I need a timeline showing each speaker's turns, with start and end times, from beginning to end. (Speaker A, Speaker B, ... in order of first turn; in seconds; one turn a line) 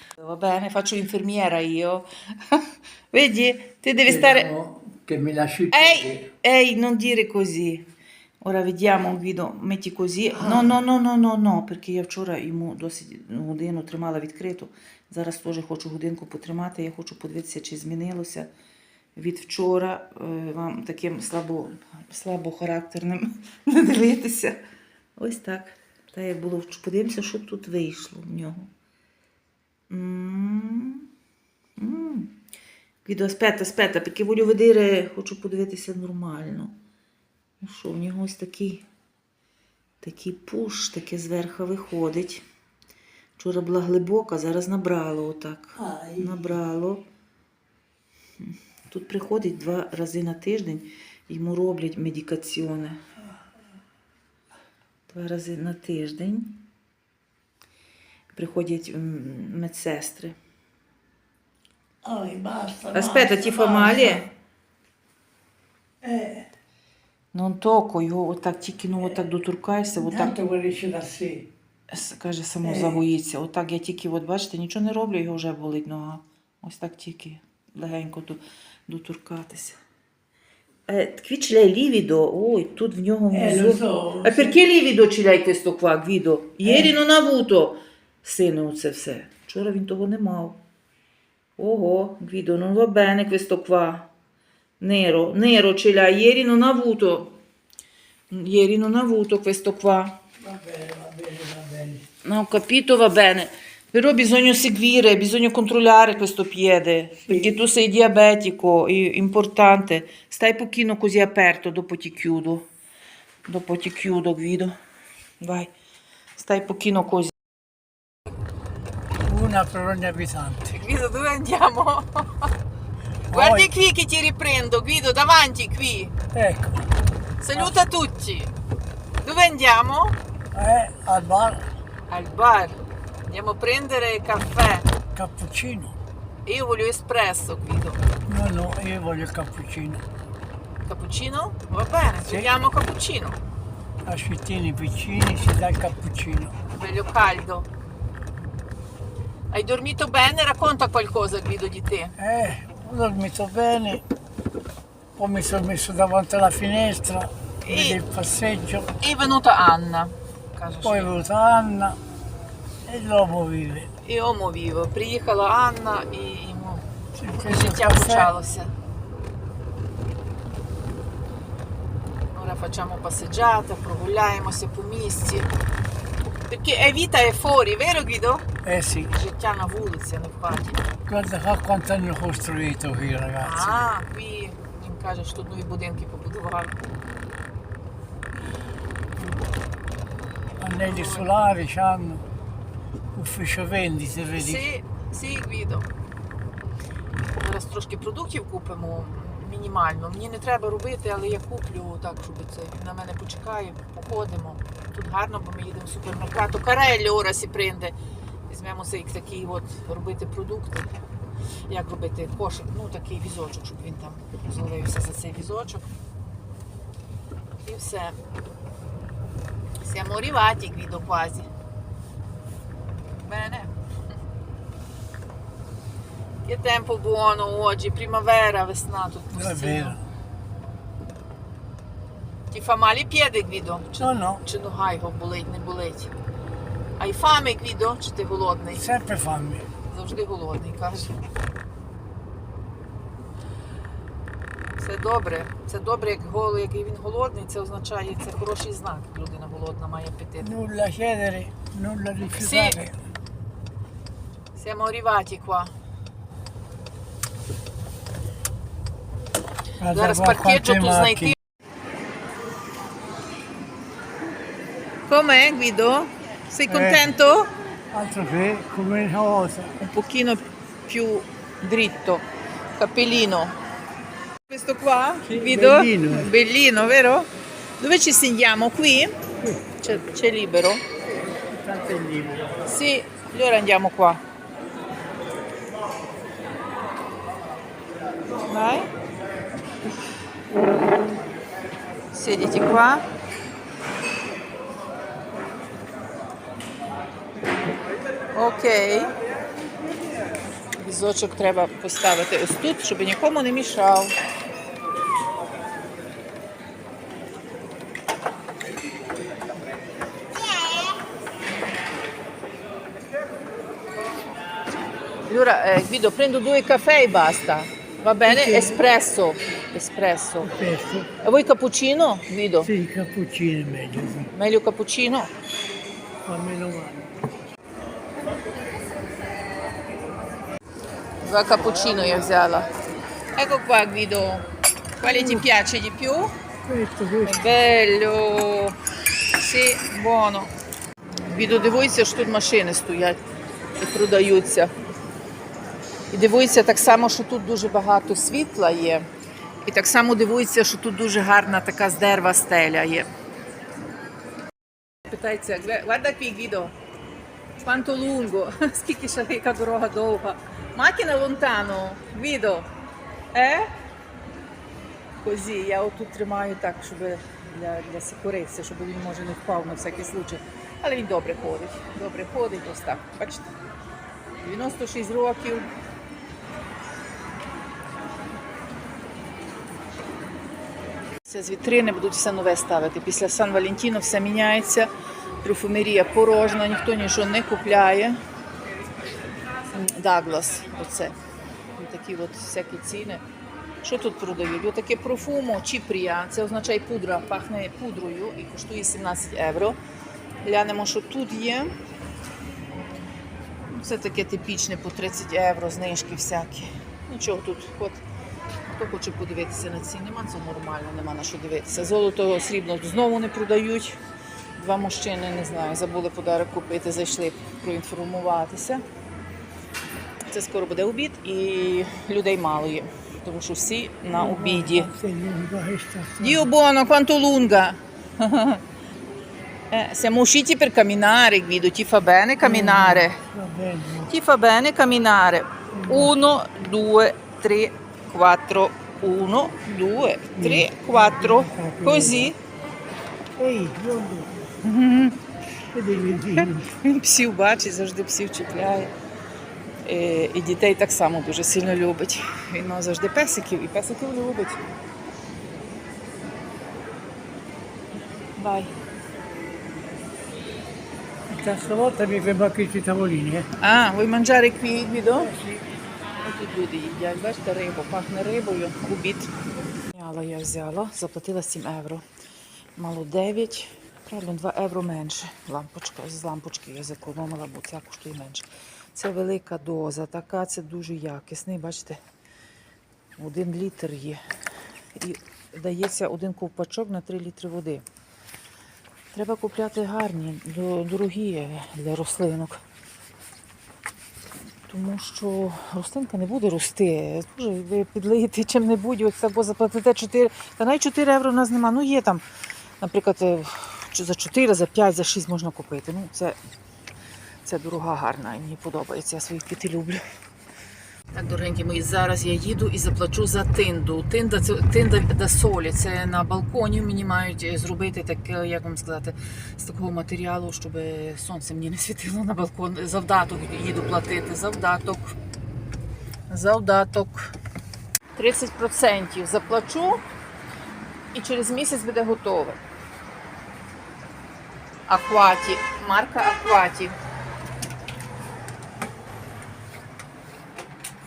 Speaker A: 0.2-4.5
Speaker B: 4.1-6.3
Speaker A: 5.7-7.9
Speaker A: 8.4-18.5
Speaker B: 10.4-10.7
Speaker A: 19.2-24.6
Speaker A: 25.2-28.7
Speaker A: 29.9-31.1
Speaker A: 31.8-32.4
Speaker A: 33.0-36.8
Speaker A: 37.6-38.9
Speaker A: 40.0-42.4
Speaker A: 43.4-47.0
Speaker B: 45.8-46.5
Speaker A: 48.4-53.0
Speaker A: 55.1-56.6
Speaker A: 58.3-60.4
Speaker B: 62.0-64.2
Speaker A: 62.9-64.3
Speaker B: 66.0-66.5
Speaker A: 67.3-70.4
Speaker B: 70.0-71.5
Speaker A: 71.9-79.8
Speaker B: 72.6-73.0
Speaker A: 80.9-90.6
Speaker B: 83.3-84.6
Speaker B: 86.6-86.9
Speaker A: 91.6-94.1
Speaker A: 94.8-97.4
Speaker A: 98.3-100.2
Speaker B: 100.4-102.1
Speaker A: 102.2-112.7
Speaker A: 113.5-114.8
Speaker A: 115.4-115.7
Speaker A: 116.4-117.3
Speaker B: 119.2-120.8
Speaker A: 120.7-122.5
Speaker B: 123.3-123.7
Speaker A: 123.3-126.2
Speaker B: 126.3-126.8
Speaker A: 127.4-128.5
Speaker A: 129.2-130.2
Speaker B: 130.5-131.7
Speaker A: 132.1-134.9
Speaker B: 135.2-136.0
Speaker A: 136.4-138.0
Speaker B: 138.3-140.1
Speaker A: 140.8-143.4
Speaker B: 144.1-146.6
Speaker A: 146.7-147.7
Speaker A: 149.5-152.2
Speaker B: 152.2-154.0
Speaker B: 155.2-158.9
Speaker A: 157.6-158.0
Speaker A: 159.0-161.2
Speaker B: 160.8-162.0
Speaker B: 162.9-163.9
Speaker A: 164.0-166.9
Speaker B: 167.2-168.3
Speaker A: 167.4-168.7
Speaker A: 172.3-175.5
Speaker A: 176.5-178.5
Speaker B: 178.6-179.1
Speaker A: 179.1-180.9
Speaker B: 181.1-183.8
Speaker A: 183.4-186.8
Speaker B: 190.6-192.2
Speaker A: 190.8-191.3
Speaker B: 193.1-194.6
Speaker A: 194.3-195.9
Speaker A: 197.4-207.9
Speaker A: 208.5-210.9
Speaker A: 211.7-215.9
Speaker A: 217.7-218.2
Speaker A: 219.8-221.5
Speaker A: 223.2-223.7
Speaker A: 226.4-230.0
Speaker B: 229.3-230.1
Speaker A: 232.5-236.1
Speaker B: 234.0-234.4
Speaker A: 237.0-238.8
Speaker B: 238.7-239.7
Speaker A: 239.9-241.2
Speaker A: 244.8-250.5
Speaker B: 250.4-253.0
Speaker A: 252.4-252.8
Speaker A: 254.6-255.7
Speaker B: 259.8-261.3
Speaker A: 259.9-261.4
Speaker A: 265.1-267.5
Speaker B: 266.7-267.1
Speaker B: 267.9-269.8
Speaker A: 269.8-272.3
Speaker A: 272.8-273.6
Speaker A: 274.5-279.1
Speaker B: 275.2-276.3
Speaker A: 279.8-280.8
Speaker B: 281.5-282.5
Speaker A: 282.6-284.2
Speaker A: 288.4-288.9
Speaker A: 292.1-293.1
Speaker A: 298.3-299.1
Speaker A: 300.8-304.1
Speaker A: 315.3-320.5
Speaker B: 318.2-318.8
Speaker B: 320.4-321.1
Speaker A: 321.2-322.7
Speaker B: 322.6-324.3
Speaker A: 324.3-325.3
Speaker B: 326.2-327.2
Speaker A: 331.2-332.7
Speaker A: 333.4-334.5
Speaker A: 335.0-336.3
Speaker B: 335.0-335.5
Speaker B: 336.6-337.4
Speaker A: 337.2-338.8
Speaker A: 339.3-340.5
Speaker A: 341.3-343.2
Speaker A: 343.8-344.7
Speaker A: 346.1-349.1
Speaker A: 349.6-353.1
Speaker A: 355.1-356.7
Speaker A: 357.6-362.7
Speaker A: 363.3-363.7
Speaker A: 365.2-373.5
Speaker A: 374.4-375.7
Speaker A: 381.3-384.9
Speaker A: 385.4-388.2
Speaker A: 389.7-391.2
Speaker A: 391.8-393.2
Speaker A: 393.8-399.8
Speaker A: 400.4-401.8
Speaker A: 403.7-408.0
Speaker A: 408.7-414.0
Speaker A: 414.6-418.8
Speaker A: 420.3-424.9
Speaker B: 424.1-426.5
Speaker A: 426.2-428.6
Speaker A: 429.7-433.2
Speaker B: 432.4-434.1
Speaker A: 434.1-442.4
Speaker B: 435.7-436.1
Speaker B: 440.4-442.3
Speaker B: 443.4-444.5
Speaker A: 444.6-445.2
Speaker B: 445.7-446.7
Speaker A: 446.3-448.9
Speaker A: 449.9-454.6
Speaker A: 458.4-458.7
Speaker B: 461.3-463.5
Speaker A: 463.6-465.3
Speaker B: 465.2-465.6
Speaker A: 466.2-469.3
Speaker A: 469.9-472.0
Speaker A: 472.8-482.0
Speaker A: 483.2-484.2
Speaker A: 484.9-487.8
Speaker A: 489.1-492.6
Speaker A: 494.7-502.2
Speaker A: 502.8-506.4
Speaker A: 507.4-510.0
Speaker A: 511.1-525.1
Speaker A: 526.3-527.3
Speaker A: 528.2-530.0
Speaker A: 531.1-532.6
Speaker A: 534.9-537.0